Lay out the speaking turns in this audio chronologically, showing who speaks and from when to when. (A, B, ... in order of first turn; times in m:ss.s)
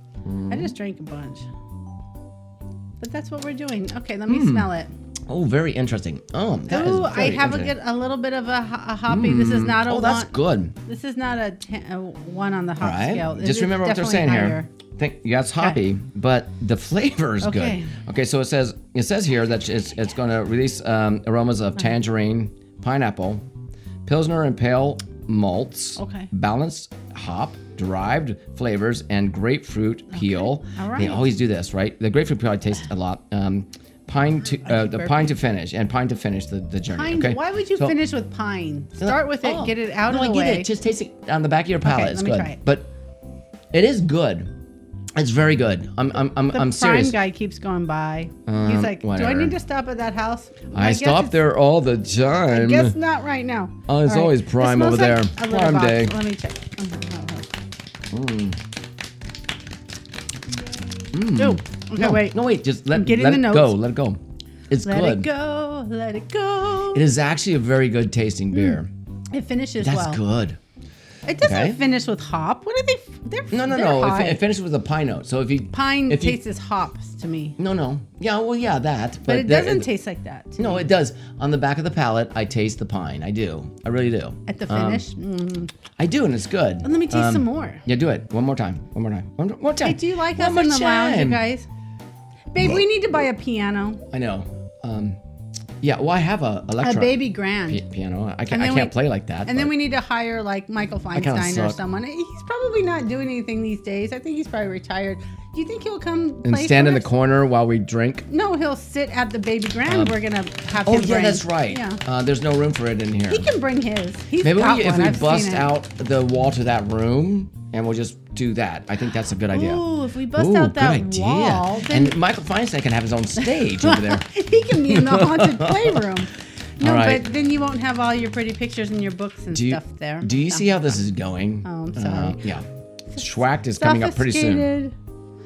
0:00.2-0:00.7 A
0:00.5-0:01.5 B
0:03.0-0:04.9 B
0:04.3-0:04.7 A
0:05.3-0:07.7 A
0:06.7-0:14.7 B
0:09.1-0:10.7 A
0:12.8-0:23.4 A
0:17.4-0:17.9 B
0:24.1-0:38.0 A
0:26.0-0:26.3 B
0:30.1-0:31.3 B
0:34.6-0:35.4 B
0:36.9-0:40.7 B
0:39.0-0:42.9 A
0:41.8-0:42.6 B
0:43.7-0:44.5 A
0:45.2-0:47.2 A
0:46.5-0:51.4 B
0:48.5-0:49.6 A
0:50.7-0:53.0 A
0:52.5-0:57.5 B
0:53.9-0:56.2 A
0:58.1-0:58.6 A
1:01.1-1:04.2 A
1:01.4-1:02.4 B
1:02.9-1:03.8 B
1:04.7-1:05.3 A
1:04.8-1:07.0 B
1:06.9-1:08.9 A
1:08.5-1:08.8 B
1:09.3-1:10.2 B
1:09.8-1:10.6 A
1:11.3-1:14.4 B
1:11.4-1:11.8 A
1:13.5-1:16.4 A
1:15.7-1:17.6 B
1:17.6-1:19.9 A
1:19.3-1:20.9 B
1:20.6-1:25.0 A
1:24.5-1:25.7 B
1:26.0-1:31.4 A
1:26.8-1:27.8 B
1:29.8-1:31.7 B
1:32.5-1:34.0 B
1:32.6-1:32.8 A
1:34.1-1:35.2 A
1:35.8-1:39.7 A
1:36.8-1:37.8 B
1:38.5-1:38.9 B
1:39.5-1:47.1 B
1:41.1-1:41.8 A
1:46.4-1:48.3 A
1:48.3-1:52.0 B
1:49.9-1:50.2 A
1:50.8-1:53.5 A
1:53.3-1:55.7 B
1:54.4-2:06.1 A
1:59.5-2:02.2 B
2:03.4-2:10.7 B
2:06.8-2:07.2 A
2:09.5-2:12.7 A
2:11.6-2:12.4 B
2:13.2-2:14.7 A
2:13.8-2:15.0 B